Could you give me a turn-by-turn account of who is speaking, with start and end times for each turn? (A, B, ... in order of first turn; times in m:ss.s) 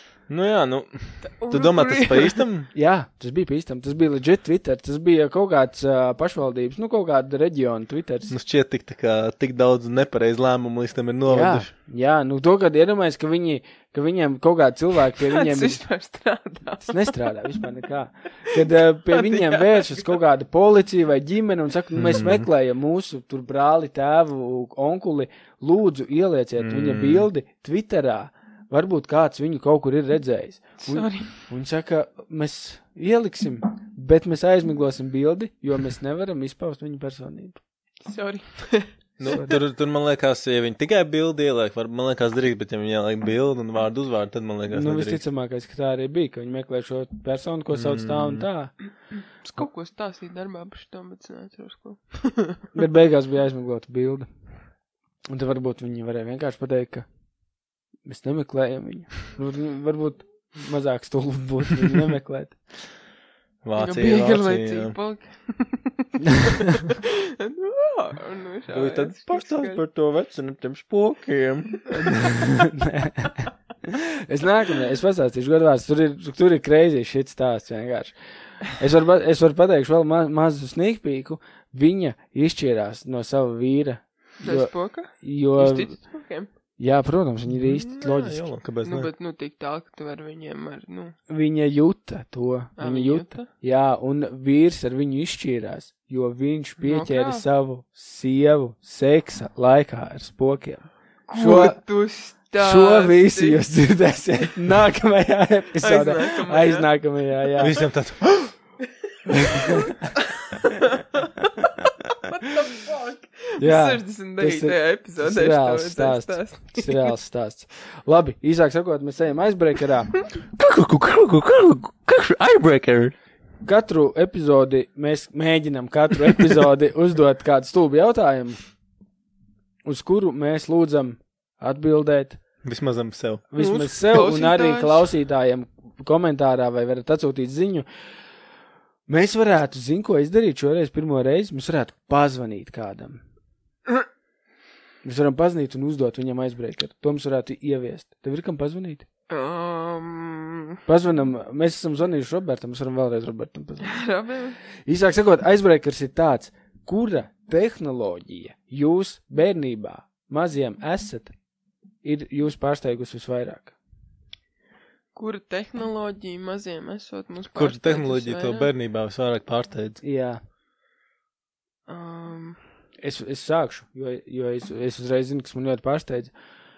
0:00.3-0:02.7 A
0:01.4-0:02.4 B
0:02.7-0:08.3 C
0:08.3-0:11.7 A
0:11.3-0:15.8 C
0:15.2-0:17.3 B
0:16.9-0:37.6 C
0:19.1-0:20.1 B
0:21.9-0:22.5 A
0:26.6-0:27.3 A
0:30.8-0:31.4 B
0:38.0-0:39.4 B
0:39.2-0:45.2 A
0:39.2-0:39.6 C
0:44.7-0:48.7 C
0:47.7-0:48.4 A
0:49.4-0:52.6 B
0:52.7-0:54.3 C
0:55.3-0:57.0 C
0:58.0-1:02.6 C
1:03.6-1:05.0 A
1:03.8-1:09.8 B
1:08.7-1:12.1 A
1:12.5-1:26.0 C
1:24.4-1:26.5 B
1:26.8-1:28.4 C
1:27.5-1:29.1 A
1:28.8-1:31.2 B
1:31.3-1:41.8 C
1:32.8-1:33.5 B
1:36.8-1:37.4 B
1:41.3-1:43.6 B
1:42.6-1:47.8 C
1:45.8-1:46.9 B
1:47.6-1:48.5 A
1:49.3-1:50.0 C
1:49.4-1:51.7 B
1:52.3-1:57.2 B
1:53.6-2:00.2 C
2:00.5-2:03.1 A
2:03.6-2:08.6 C
2:09.8-2:12.4 C
2:12.6-2:13.4 A
2:13.5-2:17.9 C
2:13.6-2:15.0 B
2:19.1-2:23.2 C
2:25.0-2:29.0 C
2:29.3-2:30.8 B
2:30.9-2:34.0 C
2:33.8-2:34.6 B
2:34.8-2:41.3 C
2:42.0-2:43.7 C
2:45.1-2:48.7 B
2:47.5-2:50.0 A
2:50.0-2:50.4 C
2:51.9-2:52.6 B
2:53.0-2:56.3 C